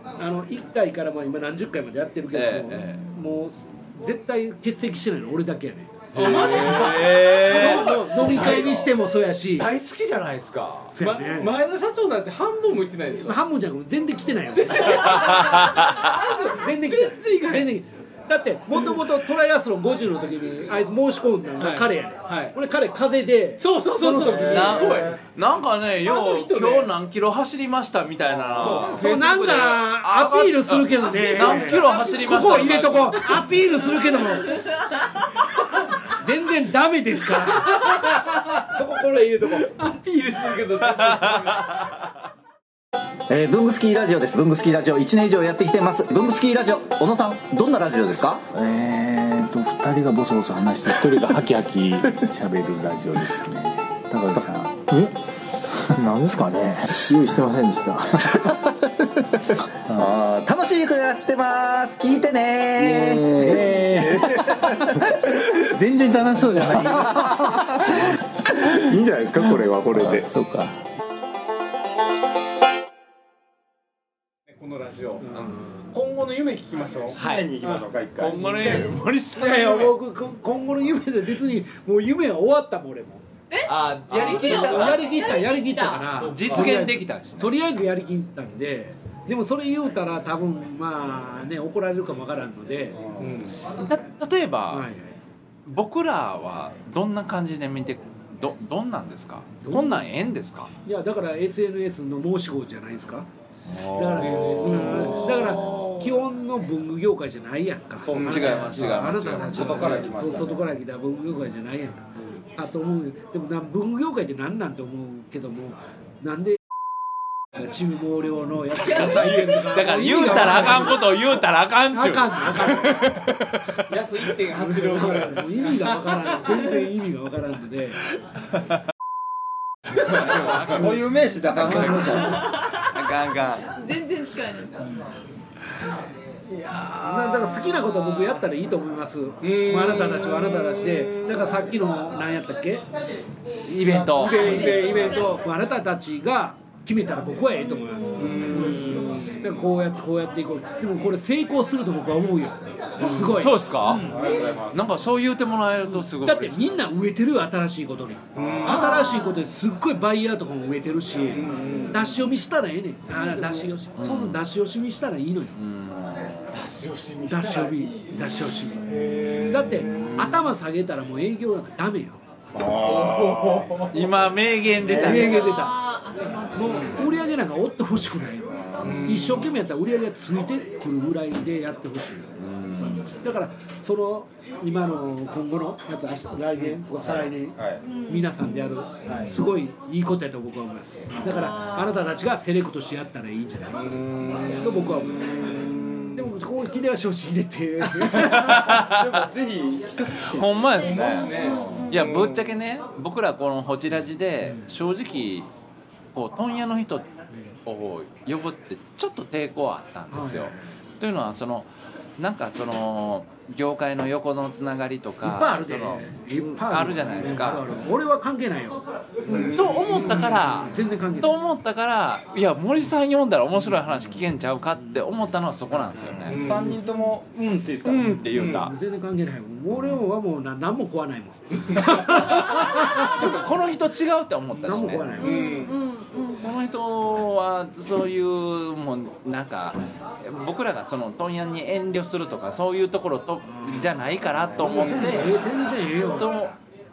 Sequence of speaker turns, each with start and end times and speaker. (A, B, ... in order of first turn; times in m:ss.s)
0:00.1-0:09.7 A
0:02.3-0:03.1 B
0:06.1-0:08.9 C
0:06.1-0:08.9 B
0:09.5-0:10.9 B
0:10.9-0:11.5 A
0:11.0-0:13.4 C
0:13.2-0:15.3 A
0:14.5-0:17.8 C
0:15.1-0:16.1 B
0:16.4-0:25.1 A
0:18.7-0:19.2 C
0:21.6-0:22.6 C
0:23.6-0:25.2 C
0:24.2-0:25.2 D
0:24.4-0:33.5 B
0:26.0-0:26.9 C
0:28.5-0:29.3 C
0:28.6-0:34.7 A
0:31.1-0:32.2 C
0:36.0-0:39.7 A
0:37.7-0:38.6 C
0:39.4-0:41.8 C
0:40.9-0:41.9 B
0:43.3-1:10.8 E
1:06.6-1:06.9 A
1:14.5-1:15.3 C
1:15.2-1:15.8 A
1:15.9-1:17.2 C
1:17.1-1:18.9 D
1:17.2-1:17.5 B
1:18.2-1:20.0 B
1:19.3-1:23.2 A
1:23.5-1:26.1 F
1:23.6-1:25.2 B
1:24.1-1:33.2 A
1:26.0-1:26.8 C
1:26.3-1:27.5 B
1:33.2-1:33.6 C
1:33.8-1:34.9 B
1:34.7-1:35.1 A
1:35.6-1:40.7 B
1:39.6-1:40.1 A
1:40.8-1:43.3 A
1:43.7-1:45.2 B
1:43.9-1:56.6 A
1:44.0-1:45.6 C
1:45.6-1:46.1 F
1:48.0-1:48.9 C
1:48.1-1:50.0 B
1:49.5-1:50.7 D
1:57.5-2:01.2 A
1:58.8-2:03.8 B
1:58.8-1:59.2 F
2:00.4-2:00.7 C
2:01.9-2:03.2 A
2:03.9-2:06.7 C
2:04.5-2:08.0 A
2:10.0-2:11.0 B
2:10.3-2:10.7 C
2:10.4-2:12.4 D
2:11.5-2:13.7 B
2:11.6-2:12.2 A
2:12.1-2:13.0 F
2:13.8-2:14.8 F
2:16.4-2:18.4 C
2:17.0-2:22.9 A
2:19.4-2:21.5 C
2:23.6-2:24.9 B
2:23.9-2:34.2 A
2:24.2-2:25.4 F
2:24.7-2:25.1 C
2:27.6-2:29.3 F
2:28.2-2:29.7 C
2:33.0-2:33.4 C
2:33.3-2:34.1 B
2:34.0-2:34.9 D
2:34.2-2:34.6 F
2:34.7-2:36.7 B
2:36.2-2:45.6 A
2:38.4-2:39.0 C
2:38.6-2:39.5 F
2:41.3-2:42.2 C
2:43.3-2:43.7 C
2:44.0-2:44.4 B
2:45.6-2:46.6 B
2:46.5-2:47.8 C
2:47.2-2:52.2 A
2:48.9-2:50.3 C
2:49.4-2:50.4 B
2:52.5-2:53.9 D
2:52.8-2:53.9 C
2:53.9-2:55.5 B
2:54.8-2:55.9 A
2:55.1-2:57.1 F
2:56.5-3:14.0 A
2:56.7-2:57.0 C
2:58.7-2:59.1 D
2:58.8-2:59.5 C
3:02.4-3:03.1 B
3:06.9-3:07.8 D
3:07.9-3:08.3 F
3:09.0-3:09.4 C
3:11.5-3:11.9 F
3:13.7-3:16.3 C
3:14.6-3:15.6 A
3:16.1-3:18.7 A
3:18.1-3:19.2 B
3:18.6-3:21.0 D
3:20.2-3:25.5 B
3:20.8-3:22.5 C
3:20.8-3:22.1 F
3:24.4-3:24.7 A
3:26.1-3:27.1 B
3:27.6-3:37.6 B
3:30.1-3:30.6 A
3:35.2-3:41.4 A
3:39.3-3:40.6 C
3:39.3-3:46.5 B
3:46.2-3:48.3 D
3:46.2-3:46.8 C
3:47.8-3:48.7 B
3:48.4-3:48.6 C
3:48.4-3:53.4 A
3:52.2-3:55.1 B
3:54.5-3:55.7 A
3:55.2-3:55.8 C
3:55.2-3:56.5 F
3:56.4-4:05.4 B
4:03.6-4:03.9 A
4:04.6-4:06.3 A
4:04.6-4:05.4 C
4:06.1-4:06.5 B